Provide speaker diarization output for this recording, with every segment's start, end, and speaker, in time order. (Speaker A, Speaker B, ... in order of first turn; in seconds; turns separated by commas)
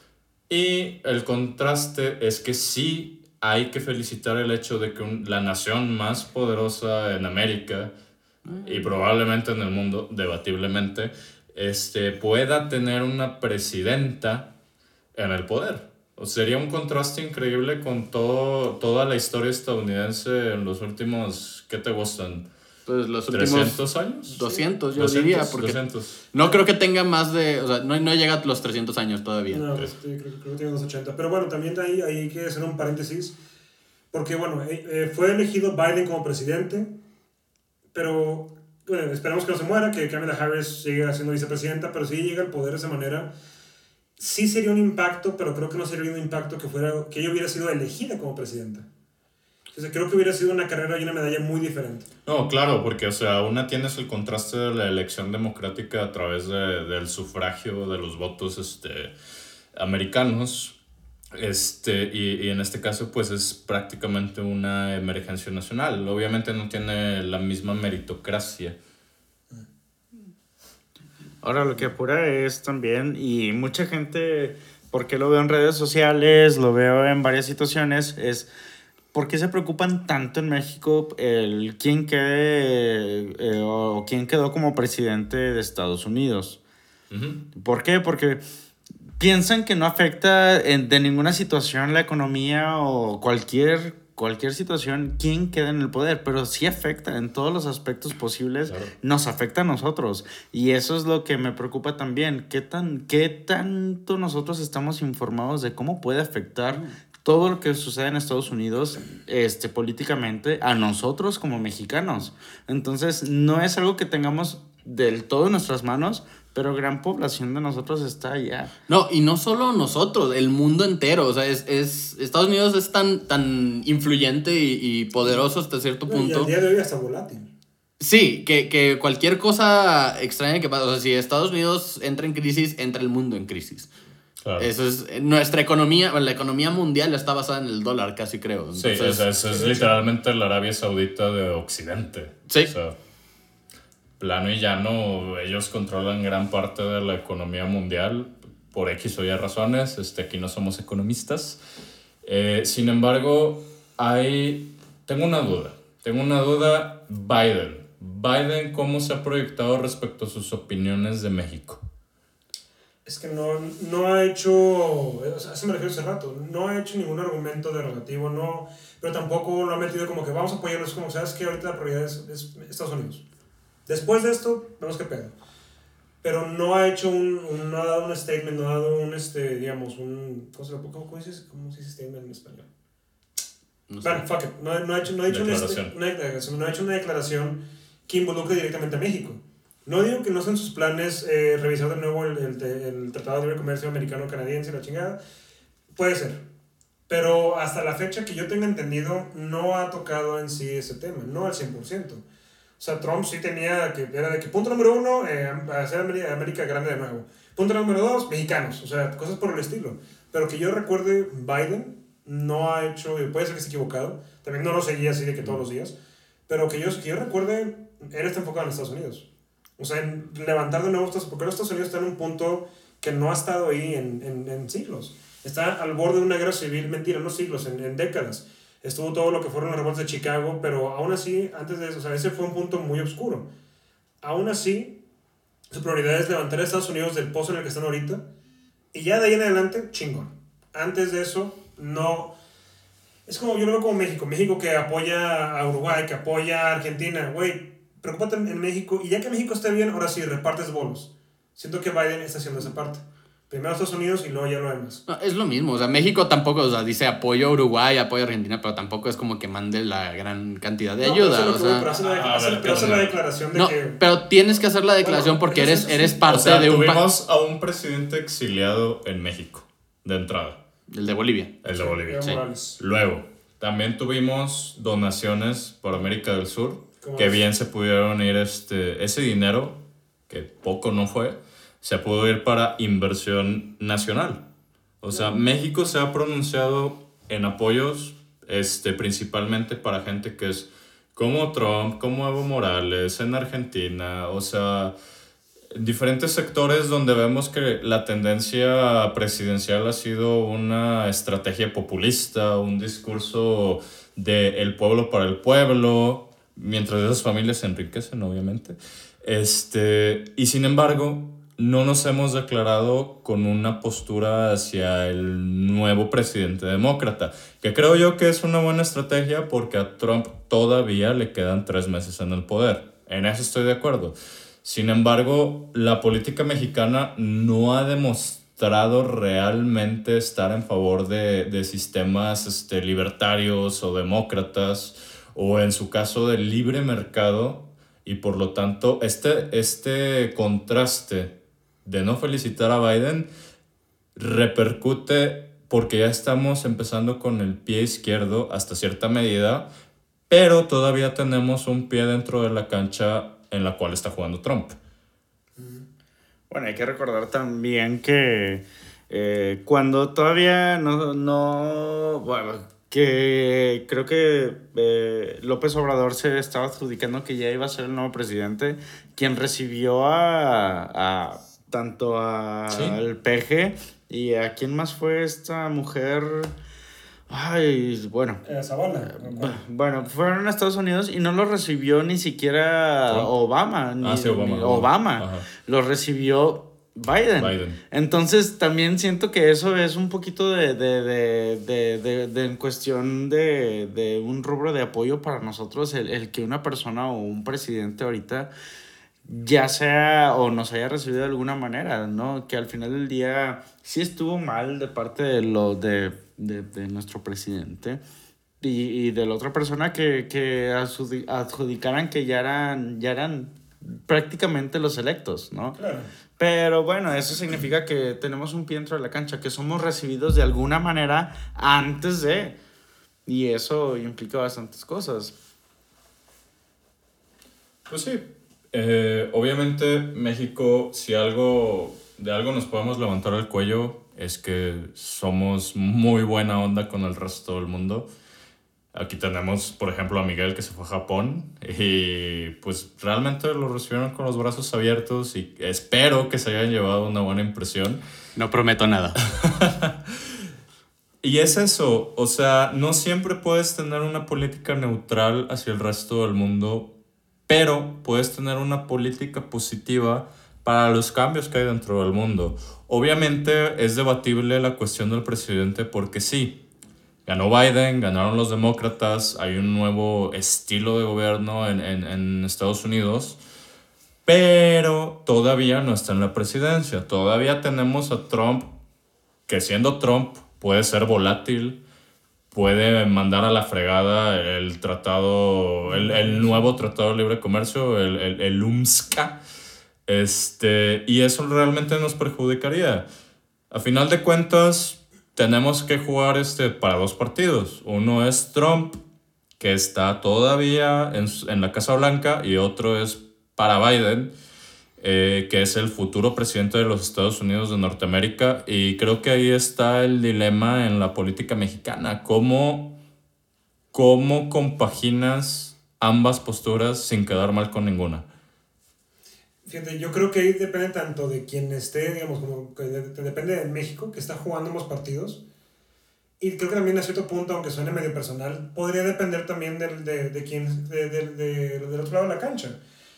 Speaker A: 0.5-7.9, Speaker B: 8.5-8.9, Speaker A: 8.6-14.5, Speaker A: 15.2-22.5, Speaker B: 22.9-29.7, Speaker A: 23.3-24.4, Speaker C: 24.4-24.7, Speaker A: 24.9-26.2, Speaker C: 26.4-26.6, Speaker C: 29.5-33.4, Speaker C: 34.1-36.9, Speaker C: 37.9-43.3, Speaker C: 44.2-48.9, Speaker C: 49.7-52.1, Speaker A: 52.2-59.1, Speaker A: 59.8-60.8, Speaker A: 61.3-68.8, Speaker D: 71.4-78.5, Speaker D: 79.1-86.6, Speaker A: 87.1-87.4, Speaker D: 87.5-88.4, Speaker D: 89.2-118.7, Speaker A: 98.7-98.9, Speaker B: 118.9-126.5, Speaker C: 126.1-127.5, Speaker B: 128.0-133.9, Speaker A: 134.4-134.7, Speaker B: 134.6-139.8, Speaker A: 138.8-142.9, Speaker C: 139.6-139.9, Speaker A: 144.2-151.6, Speaker A: 152.2-161.8, Speaker C: 163.1-173.2, Speaker C: 173.9-175.3, Speaker C: 176.2-182.7, Speaker B: 183.9-184.2, Speaker C: 184.0-195.2, Speaker A: 185.3-185.9, Speaker C: 195.9-196.4, Speaker C: 197.1-202.2, Speaker C: 202.8-216.0, Speaker C: 216.5-233.5, Speaker C: 234.2-235.0, Speaker C: 235.7-238.3, Speaker C: 238.9-242.3, Speaker C: 243.3-255.0, Speaker B: 255.1-261.9, Speaker C: 261.0-264.0, Speaker A: 262.0-263.2, Speaker B: 263.6-267.1, Speaker C: 265.0-266.2, Speaker A: 266.3-270.6, Speaker B: 270.9-271.6, Speaker A: 271.6-284.5, Speaker C: 271.7-272.8, Speaker C: 277.0-277.5, Speaker A: 285.0-294.9, Speaker A: 295.7-343.3, Speaker A: 344.2-349.7, Speaker A: 350.3-354.8, Speaker C: 355.6-355.9, Speaker D: 356.5-376.5, Speaker A: 372.7-373.0, Speaker D: 377.3-398.5, Speaker C: 378.4-379.6, Speaker A: 384.0-385.5, Speaker A: 387.4-387.8, Speaker D: 399.2-408.0, Speaker D: 408.6-415.8, Speaker C: 415.8-416.1, Speaker D: 416.4-422.6, Speaker D: 423.3-425.3, Speaker A: 427.9-438.1, Speaker A: 438.9-448.0, Speaker B: 448.4-449.2, Speaker A: 449.2-450.0, Speaker A: 451.2-456.9, Speaker A: 457.5-466.6, Speaker A: 467.3-473.4, Speaker A: 474.2-478.8, Speaker A: 479.5-481.8, Speaker A: 482.5-489.4, Speaker C: 485.9-486.7, Speaker A: 490.1-493.1, Speaker A: 493.7-499.0, Speaker A: 499.6-504.3, Speaker A: 505.0-513.0, Speaker A: 513.9-518.3, Speaker C: 519.6-525.4, Speaker C: 526.4-532.8